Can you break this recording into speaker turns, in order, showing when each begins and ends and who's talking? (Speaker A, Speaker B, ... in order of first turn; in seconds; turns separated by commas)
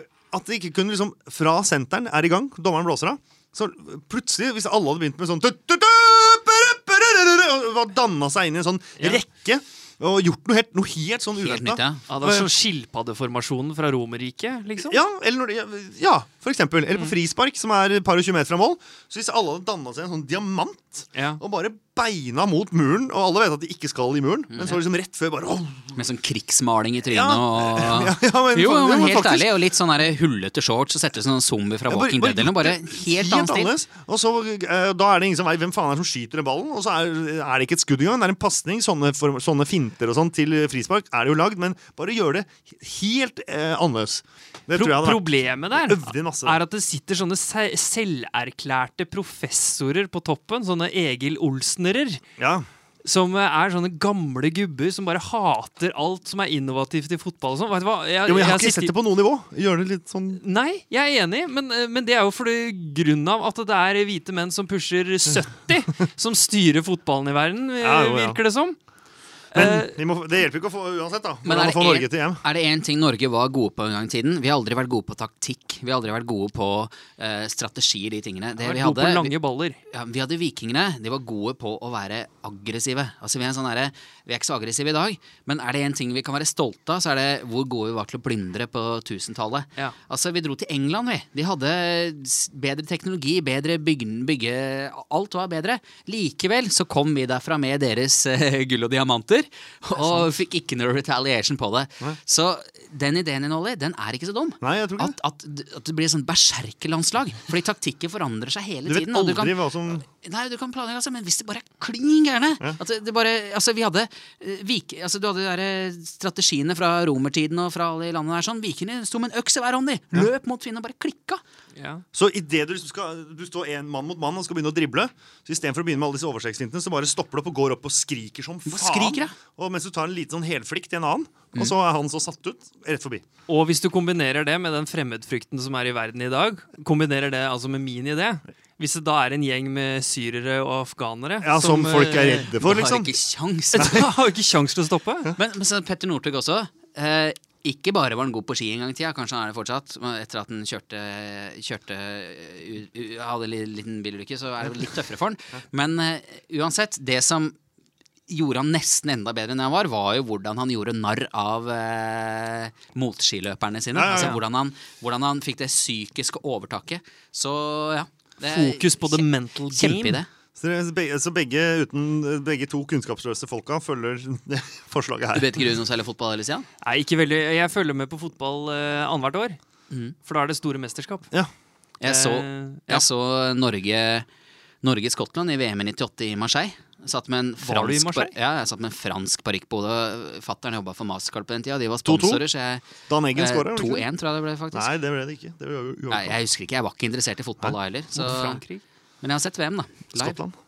Speaker A: 0.2-12.5, Speaker B: 11.4-12.1, Speaker C: 12.1-15.0, Speaker A: 14.8-26.0, Speaker C: 21.1-21.4, Speaker B: 24.5-24.8, Speaker B: 25.9-33.8, Speaker A: 27.1-29.6, Speaker A: 31.9-46.6, Speaker C: 44.7-52.2, Speaker A: 52.4-52.6, Speaker C: 53.0-58.9, Speaker A: 58.3-60.4, Speaker C: 60.3-68.8, Speaker A: 67.8-68.4, Speaker C: 69.5-70.0, Speaker A: 69.5-72.4, Speaker B: 71.4-79.3, Speaker C: 78.6-79.8, Speaker B: 79.9-121.4, Speaker C: 100.0-100.2, Speaker A: 104.6-105.2, Speaker A: 108.9-110.1, Speaker C: 121.8-122.0, Speaker A: 122.1-133.2, Speaker B: 128.7-129.3, Speaker C: 133.5-142.5, Speaker A: 141.4-143.1, Speaker B: 142.6-144.1, Speaker C: 143.7-145.3, Speaker B: 145.3-157.6, Speaker B: 158.3-170.3, Speaker A: 163.9-164.4, Speaker C: 164.1-164.4, Speaker C: 168.4-170.2, Speaker A: 170.6-175.6, Speaker B: 175.3-176.7, Speaker C: 176.8-179.6, Speaker B: 179.9-180.2, Speaker C: 180.2-181.3, Speaker B: 182.0-184.3, Speaker C: 182.0-183.1, Speaker B: 184.8-195.0, Speaker C: 187.6-188.3, Speaker A: 192.1-192.4, Speaker A: 193.1-194.1, Speaker A: 194.7-196.4, Speaker B: 196.1-198.6, Speaker C: 198.1-198.8, Speaker B: 199.2-200.4, Speaker A: 200.2-200.6